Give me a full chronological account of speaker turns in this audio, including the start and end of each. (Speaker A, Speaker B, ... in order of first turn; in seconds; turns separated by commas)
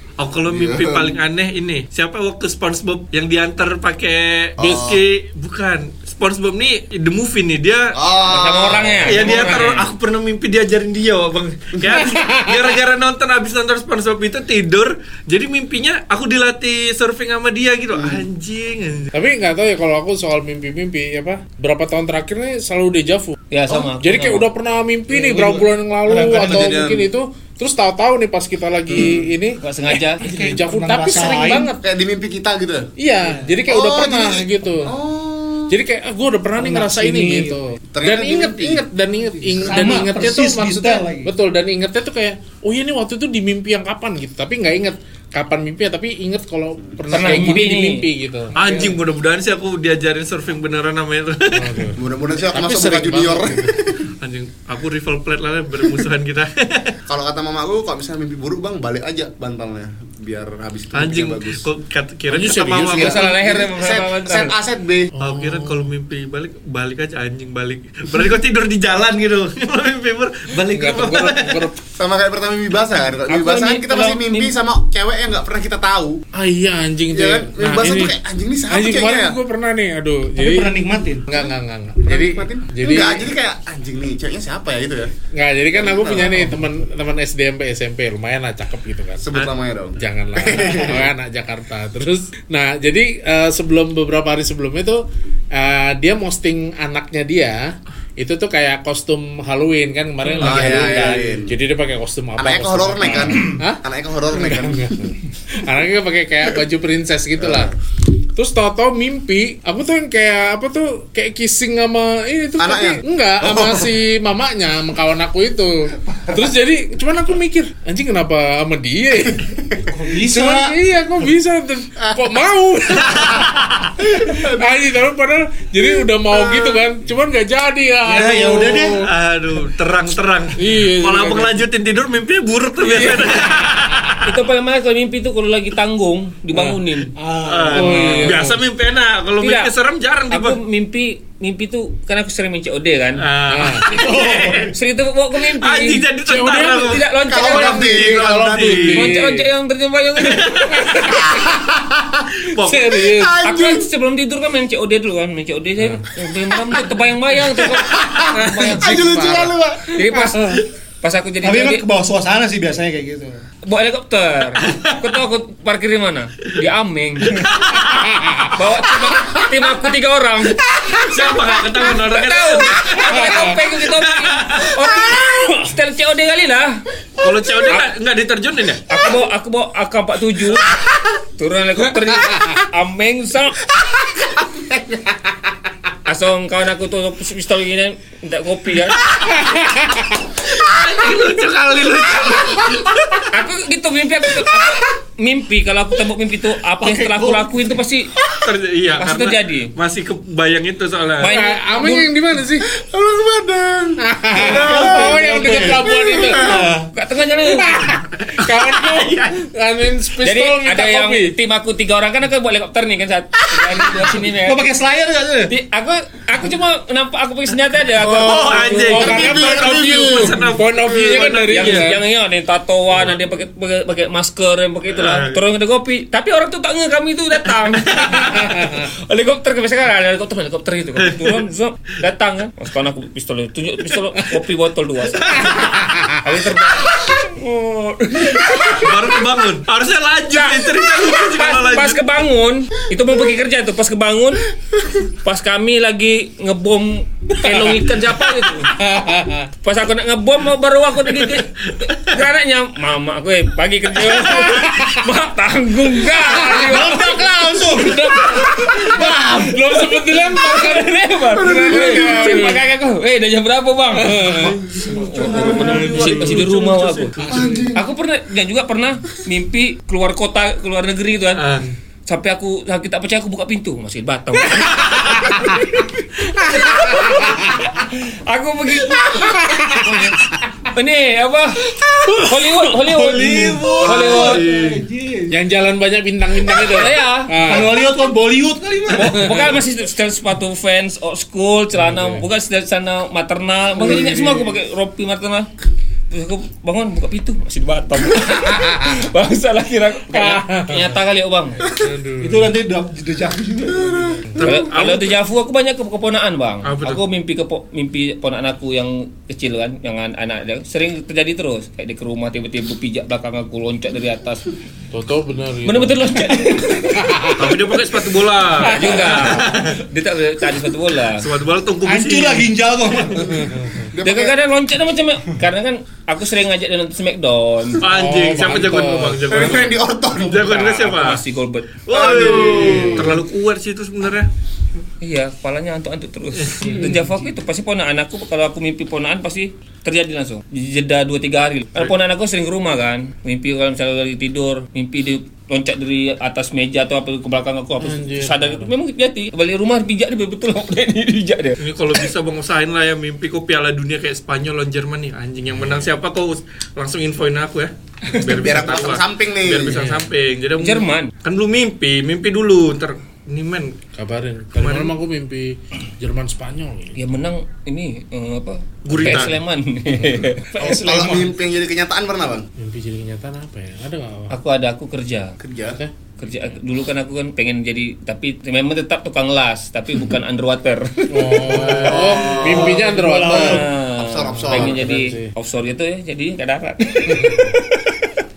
Speaker A: 0.2-8.0, Speaker B: 0.5-1.2, Speaker B: 4.6-5.0, Speaker C: 4.6-4.9, Speaker B: 7.9-9.6, Speaker D: 8.3-9.9, Speaker A: 9.1-19.1, Speaker C: 12.0-12.6, Speaker B: 17.9-18.2, Speaker C: 19.1-31.8, Speaker D: 23.5-24.5, Speaker E: 25.1-26.8, Speaker B: 26.1-27.1, Speaker B: 28.9-29.2, Speaker D: 29.6-30.2, Speaker E: 30.2-31.7, Speaker B: 31.8-32.9, Speaker C: 33.0-34.9, Speaker E: 33.2-33.6, Speaker B: 33.7-35.8, Speaker C: 35.7-48.5, Speaker E: 36.6-37.6, Speaker B: 37.9-38.9, Speaker E: 39.4-41.3, Speaker D: 47.1-48.1, Speaker E: 48.5-49.0, Speaker A: 48.5-51.9, Speaker C: 51.5-52.0, Speaker B: 52.0-54.1, Speaker C: 52.5-53.8, Speaker A: 54.2-56.9, Speaker B: 57.1-61.6, Speaker A: 60.9-63.2, Speaker C: 62.3-63.2, Speaker B: 62.8-65.1, Speaker D: 62.9-64.5, Speaker C: 65.2-65.9, Speaker A: 65.2-71.7, Speaker C: 70.7-71.8, Speaker B: 72.0-76.2, Speaker D: 73.3-74.5, Speaker C: 76.3-78.1, Speaker B: 77.1-79.4, Speaker C: 78.7-80.7, Speaker E: 80.4-81.4, Speaker C: 81.3-83.3, Speaker B: 82.0-85.1, Speaker C: 85.3-89.2, Speaker B: 85.7-86.6, Speaker B: 89.2-91.1, Speaker C: 90.0-107.8, Speaker B: 100.4-101.6, Speaker B: 102.4-105.0, Speaker B: 107.4-107.7, Speaker C: 108.3-119.5, Speaker B: 112.6-113.9, Speaker B: 116.2-116.4, Speaker B: 119.3-119.9, Speaker E: 119.9-120.8, Speaker C: 120.2-129.1, Speaker B: 123.1-124.8, Speaker B: 126.3-126.8, Speaker E: 128.0-129.0, Speaker A: 129.0-134.3, Speaker C: 130.6-131.6, Speaker C: 132.8-134.2, Speaker D: 134.2-137.1, Speaker C: 136.5-136.8, Speaker E: 137.2-138.3, Speaker A: 137.4-140.6, Speaker C: 137.7-138.6, Speaker D: 139.4-139.7, Speaker D: 140.3-143.2, Speaker A: 143.2-144.7, Speaker C: 143.5-143.9, Speaker E: 143.9-144.7, Speaker D: 144.6-146.1, Speaker A: 145.4-149.1, Speaker C: 146.2-147.0, Speaker D: 146.6-148.1, Speaker B: 147.3-149.0, Speaker C: 147.5-149.5, Speaker D: 148.9-151.2, Speaker A: 150.2-151.1, Speaker C: 150.8-151.3, Speaker B: 151.1-152.4, Speaker A: 152.5-153.0, Speaker C: 152.6-153.4, Speaker B: 152.9-153.9, Speaker D: 153.4-159.0, Speaker C: 155.8-156.1, Speaker B: 157.5-159.9, Speaker C: 158.3-160.6, Speaker D: 159.9-161.8, Speaker E: 161.4-163.4, Speaker D: 163.6-167.7, Speaker A: 164.6-164.9, Speaker A: 167.3-168.1, Speaker C: 167.9-168.6, Speaker D: 168.5-176.8, Speaker A: 170.9-174.8, Speaker C: 173.1-173.6, Speaker A: 177.2-178.9, Speaker D: 178.9-180.7, Speaker D: 181.4-183.7, Speaker B: 184.2-185.3, Speaker D: 186.1-189.1, Speaker C: 189.5-190.0, Speaker A: 190.5-193.2, Speaker D: 193.3-198.1, Speaker E: 196.8-197.7, Speaker A: 198.4-201.3, Speaker D: 199.0-199.7, Speaker D: 201.2-202.1, Speaker C: 201.2-202.7, Speaker B: 202.7-206.8, Speaker C: 204.0-206.7, Speaker E: 204.4-206.9, Speaker D: 206.9-208.0, Speaker C: 207.4-211.4, Speaker A: 208.2-209.4, Speaker D: 210.2-214.7, Speaker E: 213.7-215.5, Speaker D: 215.5-219.2, Speaker B: 218.0-221.3, Speaker A: 218.0-221.9, Speaker C: 218.8-222.0, Speaker D: 221.5-239.1, Speaker A: 224.9-225.4, Speaker A: 227.8-228.4, Speaker C: 228.3-228.9, Speaker A: 231.0-231.5, Speaker C: 235.5-236.3, Speaker A: 238.5-242.0, Speaker D: 240.3-244.5, Speaker D: 245.1-248.8, Speaker C: 247.4-247.9, Speaker C: 248.7-249.5, Speaker D: 249.6-259.1, Speaker C: 254.0-255.1, Speaker C: 256.2-257.0, Speaker E: 256.3-259.9, Speaker C: 257.7-262.7, Speaker D: 260.1-267.2, Speaker B: 261.4-262.5, Speaker C: 263.9-264.7, Speaker E: 264.7-266.5, Speaker A: 264.9-267.5, Speaker E: 267.2-267.8, Speaker B: 267.3-267.9, Speaker D: 267.8-271.4, Speaker A: 271.4-271.7, Speaker D: 272.1-284.4, Speaker C: 275.3-275.6, Speaker C: 276.4-277.6, Speaker C: 279.2-280.3, Speaker C: 282.1-282.5, Speaker A: 282.9-284.8, Speaker E: 283.1-285.4, Speaker C: 285.3-287.9, Speaker D: 286.6-287.7, Speaker E: 287.4-289.5, Speaker D: 288.9-295.5, Speaker C: 289.1-289.5, Speaker C: 291.7-292.3, Speaker E: 293.8-294.5, Speaker D: 296.1-301.6, Speaker C: 298.2-299.0, Speaker C: 300.1-301.0, Speaker C: 301.8-302.5, Speaker E: 302.2-304.4, Speaker B: 303.7-304.4, Speaker A: 304.4-305.2, Speaker D: 304.4-314.4, Speaker A: 306.6-307.0, Speaker C: 314.9-317.7, Speaker D: 315.6-317.3, Speaker A: 317.4-319.8, Speaker C: 318.5-319.6, Speaker D: 318.6-321.3, Speaker A: 321.2-322.5, Speaker E: 321.8-323.6, Speaker C: 323.2-323.9, Speaker B: 323.9-324.4, Speaker D: 324.0-327.9, Speaker A: 327.8-331.2, Speaker C: 327.9-329.4, Speaker B: 329.3-330.7, Speaker D: 330.5-331.8, Speaker A: 331.9-334.3, Speaker B: 331.9-333.2, Speaker C: 332.4-333.2, Speaker D: 335.0-352.1, Speaker A: 336.4-336.9, Speaker C: 347.8-348.8, Speaker A: 351.6-363.8, Speaker C: 355.6-355.8, Speaker B: 358.3-359.8, Speaker C: 359.6-360.1, Speaker D: 360.6-361.1, Speaker C: 363.9-367.0, Speaker A: 364.6-364.9, Speaker D: 366.9-371.3, Speaker A: 368.9-369.4, Speaker B: 369.0-369.3, Speaker B: 370.6-372.5, Speaker E: 370.6-371.1, Speaker C: 372.6-374.4, Speaker D: 374.3-375.4, Speaker B: 375.4-375.8, Speaker C: 375.7-375.9, Speaker D: 376.2-382.4, Speaker C: 381.1-383.7, Speaker E: 381.5-383.7, Speaker B: 381.8-382.8, Speaker D: 383.3-388.1, Speaker B: 383.9-384.8, Speaker C: 384.3-385.3, Speaker C: 387.1-387.6